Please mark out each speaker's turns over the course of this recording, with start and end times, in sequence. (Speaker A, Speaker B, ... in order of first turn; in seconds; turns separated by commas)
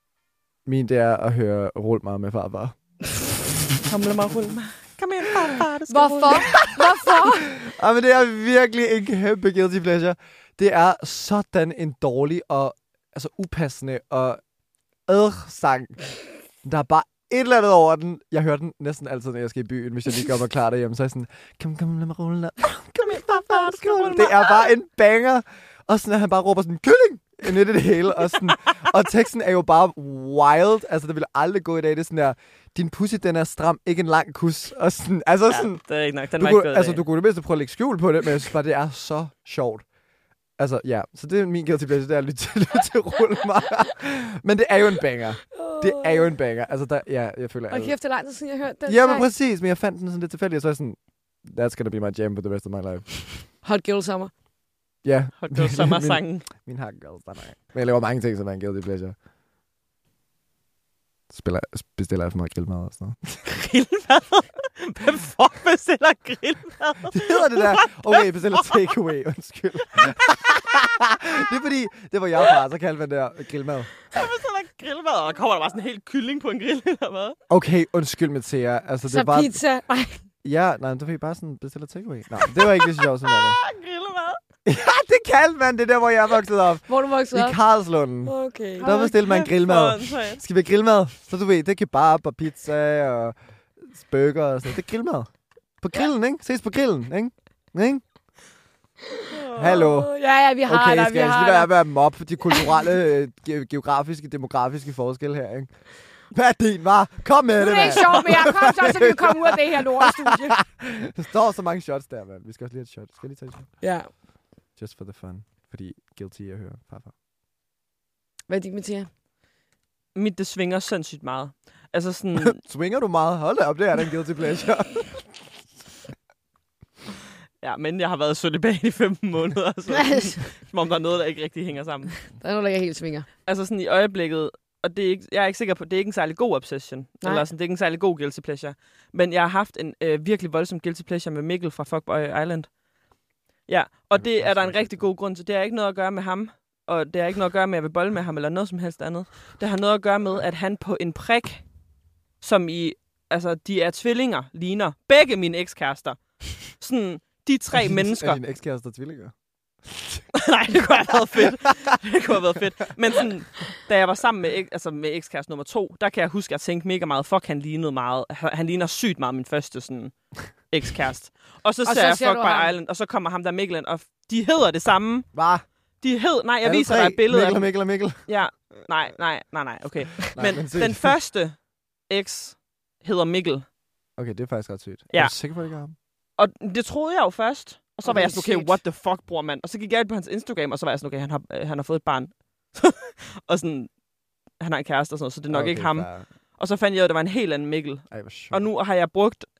Speaker A: 0.7-2.8, Speaker B: 3.8-6.6, Speaker C: 5.9-7.5, Speaker A: 6.5-6.8, Speaker A: 7.5-14.4, Speaker A: 15.1-16.1, Speaker A: 16.6-35.8, Speaker B: 23.0-24.7, Speaker B: 35.5-37.0, Speaker A: 36.4-39.8, Speaker A: 40.6-47.9, Speaker C: 45.5-46.3, Speaker C: 47.7-49.3, Speaker A: 48.9-53.5, Speaker C: 53.6-54.3, Speaker A: 55.0-59.1, Speaker B: 55.4-56.5, Speaker A: 61.3-63.4, Speaker B: 63.4-68.8, Speaker A: 67.1-73.9, Speaker B: 74.1-77.3, Speaker A: 77.5-79.6, Speaker C: 79.1-80.2, Speaker A: 80.4-83.6, Speaker B: 82.6-84.4, Speaker A: 84.6-93.3, Speaker C: 86.9-87.6, Speaker C: 88.2-89.1, Speaker B: 88.8-90.4, Speaker A: 93.9-95.3, Speaker A: 95.8-98.0, Speaker C: 99.2-101.7, Speaker B: 99.3-99.7, Speaker A: 99.5-100.1, Speaker A: 100.6-105.7, Speaker A: 106.3-113.7, Speaker C: 107.6-110.6, Speaker C: 113.8-114.1, Speaker A: 114.8-117.1, Speaker C: 118.5-119.1, Speaker B: 120.1-122.6, Speaker A: 122.4-125.3, Speaker B: 127.6-132.2, Speaker C: 129.9-130.3, Speaker C: 132.3-133.3, Speaker B: 133.4-142.7, Speaker B: 143.7-151.6, Speaker A: 144.1-145.1, Speaker B: 152.4-158.4, Speaker A: 157.7-159.3, Speaker A: 159.8-160.2, Speaker B: 160.3-175.3, Speaker C: 171.8-172.7, Speaker A: 175.3-175.7, Speaker B: 176.0-183.7, Speaker A: 176.6-178.2, Speaker A: 180.3-181.1, Speaker A: 184.2-185.9, Speaker B: 185.1-185.3, Speaker B: 186.4-193.9, Speaker C: 188.0-188.8, Speaker B: 194.6-199.5, Speaker A: 195.5-196.2, Speaker A: 198.1-198.7